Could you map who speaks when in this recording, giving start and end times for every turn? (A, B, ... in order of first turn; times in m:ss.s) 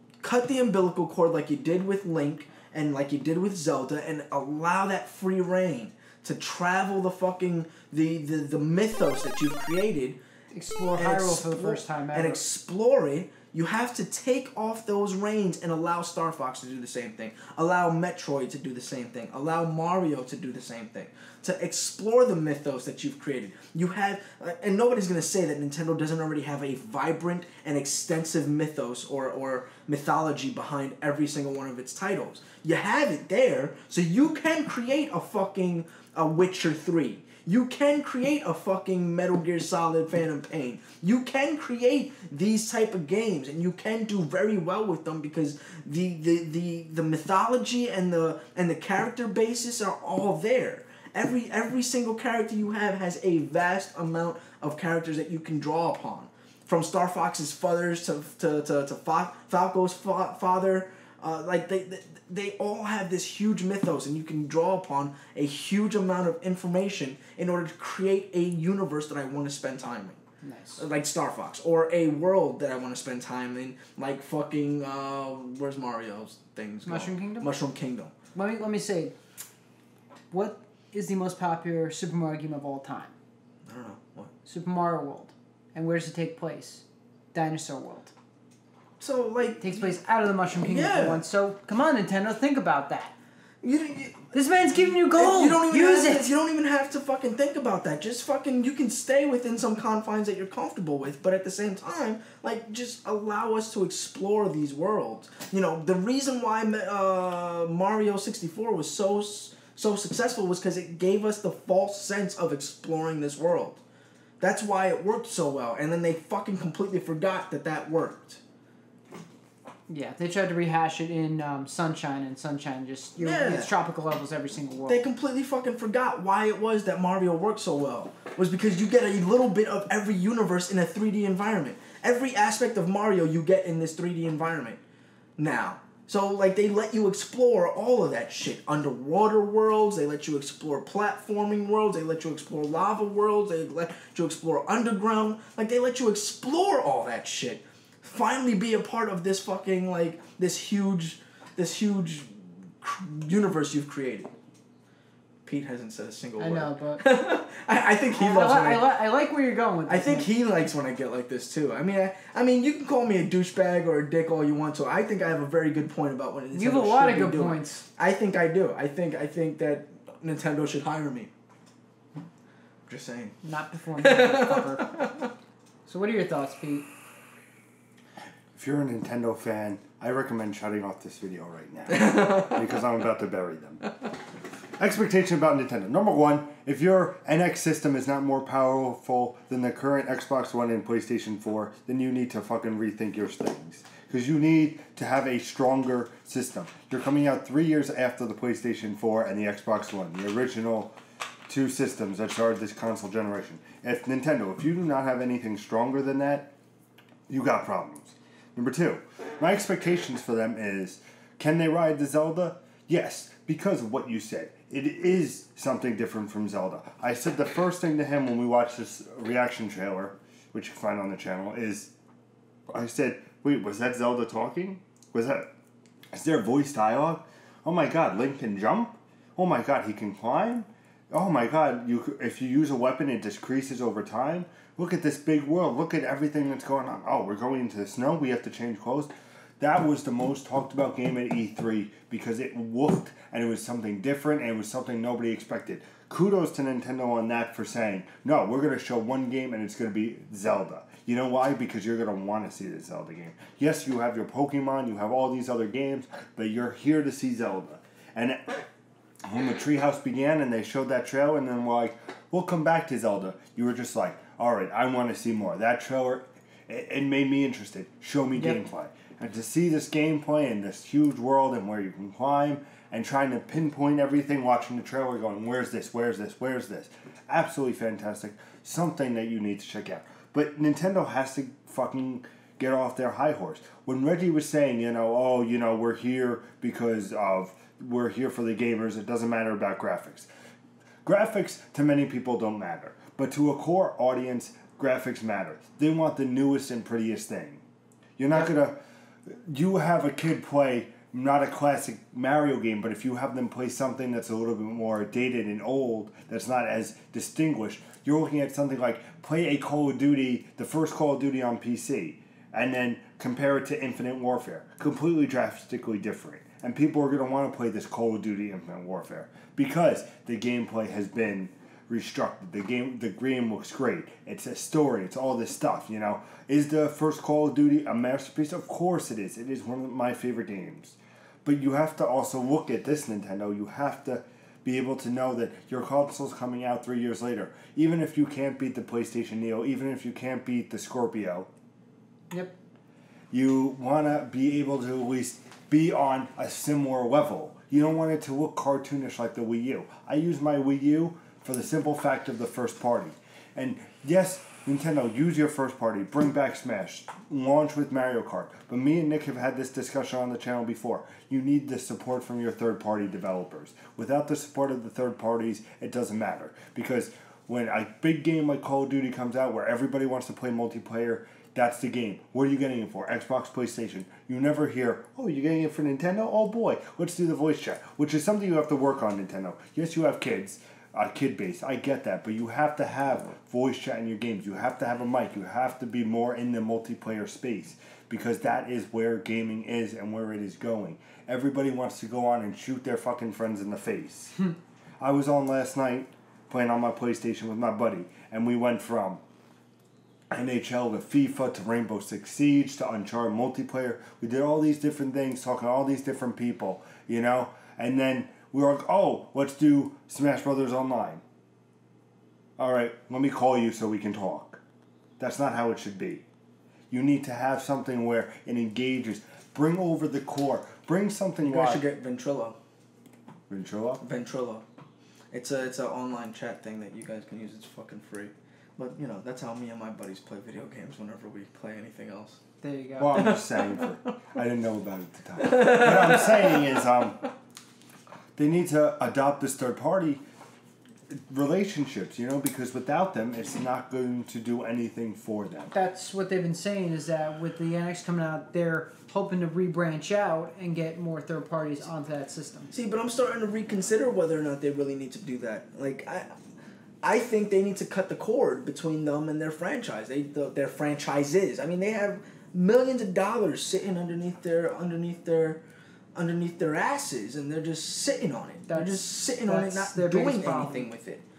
0:00.2-0:10.2 A
0:10.5-0:12.4 B
0:11.0-1:10.2 A
1:10.4-1:10.8 B
1:10.8-1:18.1 A
1:16.9-1:17.5 B
1:18.4-1:19.1 B
1:20.3-1:23.1 B
1:23.7-1:24.3 A
1:24.4-1:28.1 B
1:29.0-1:29.9 A
1:29.6-1:33.1 B
1:30.6-1:31.2 A
1:33.6-1:34.3 A
1:34.3-1:36.3 B
1:35.0-1:53.8 A
1:54.4-1:58.4 A
1:59.9-2:05.0 B
2:03.2-2:03.7 A
2:04.9-2:14.8 A
2:15.4-2:34.3 A
2:35.5-2:39.0 A
2:36.4-2:37.0 B
2:38.1-2:40.3 B
2:39.9-2:51.3 A
2:46.5-2:47.8 B
2:52.9-2:53.4 A
2:53.4-2:54.9 B
2:54.0-2:55.3 A
2:55.9-2:56.9 B
2:58.5-3:03.8 C
3:01.9-3:02.6 A
3:04.8-3:20.9 C
3:21.5-3:26.5 C
3:27.3-3:41.9 C
3:42.7-3:45.5 C
3:46.1-4:18.6 C
4:19.2-4:50.3 C
4:51.0-4:57.6 C
4:58.2-5:41.5 C
5:43.3-6:34.4 C
6:35.0-6:39.2 C
6:40.3-6:51.2 C
6:52.6-6:54.6 C
6:55.2-6:56.2 C
6:56.9-7:01.8 C
7:01.4-7:02.6 A
7:03.5-7:04.0 C
7:04.0-7:04.6 A
7:05.3-7:12.4 A
7:12.6-7:13.3 B
7:13.0-7:17.2 C
7:13.2-7:13.9 A
7:15.4-7:16.4 A
7:18.4-7:20.2 C
7:21.1-7:25.7 C
7:25.7-7:32.7 B
7:32.7-7:36.3 A
7:37.0-7:45.6 A
7:46.2-7:51.2 A
7:48.7-7:50.9 B